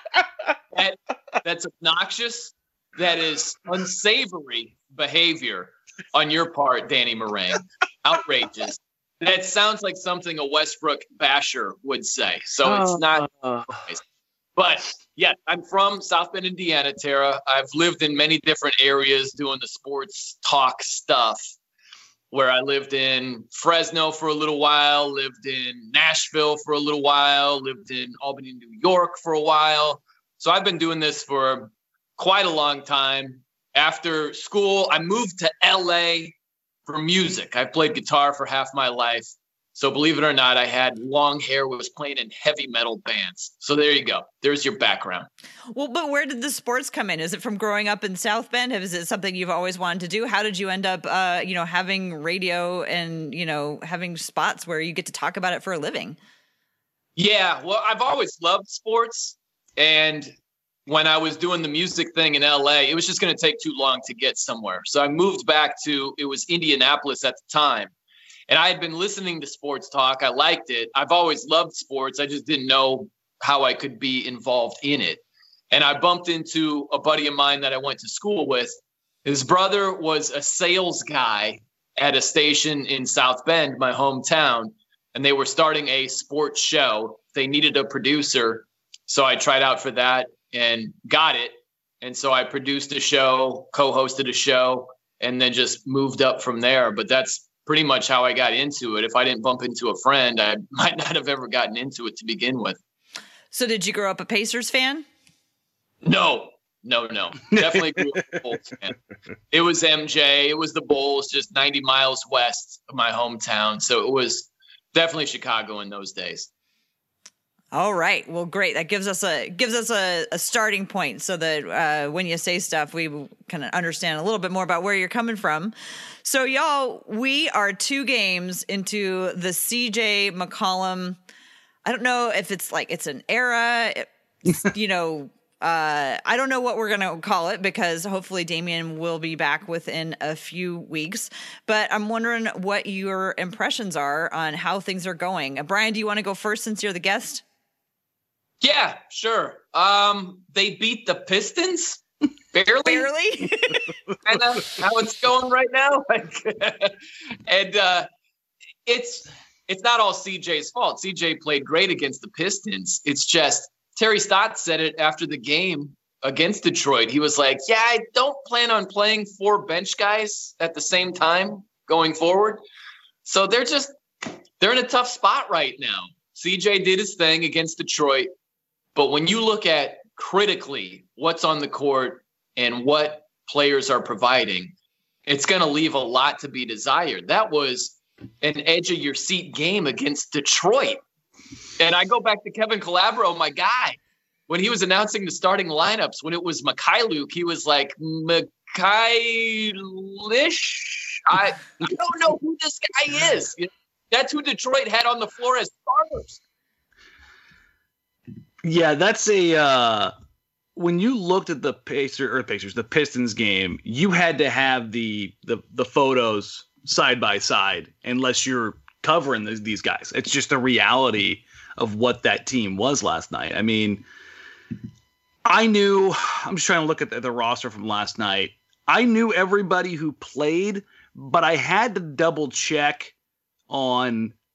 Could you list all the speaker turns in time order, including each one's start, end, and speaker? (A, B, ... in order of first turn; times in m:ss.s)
0:00.7-0:13.3 A
0:12.6-0:13.9 B
0:14.6-0:21.4 A
0:22.3-0:36.4 A
0:36.9-0:45.3 A
0:45.7-0:56.2 C
0:57.2-1:00.4 A
1:00.9-1:07.9 A
1:08.5-1:42.8 A
1:43.5-1:45.1 C
1:46.0-1:49.0 A
1:47.5-1:48.3 B
1:49.5-1:56.5 A
1:57.7-2:11.2 C
2:11.8-2:27.4 C
2:28.6-2:32.0 A
2:32.5-2:33.1 A
2:32.9-2:33.9 C
2:34.2-2:36.9 A
2:37.5-2:38.1 A
2:38.9-2:52.6 A
2:53.2-2:58.3 A
2:59.0-3:04.7 A
3:05.3-3:11.0 A
3:11.8-3:26.4 A
3:28.6-3:30.1 B
3:30.8-3:44.0 B
3:45.5-3:53.1 B
3:53.7-3:54.4 B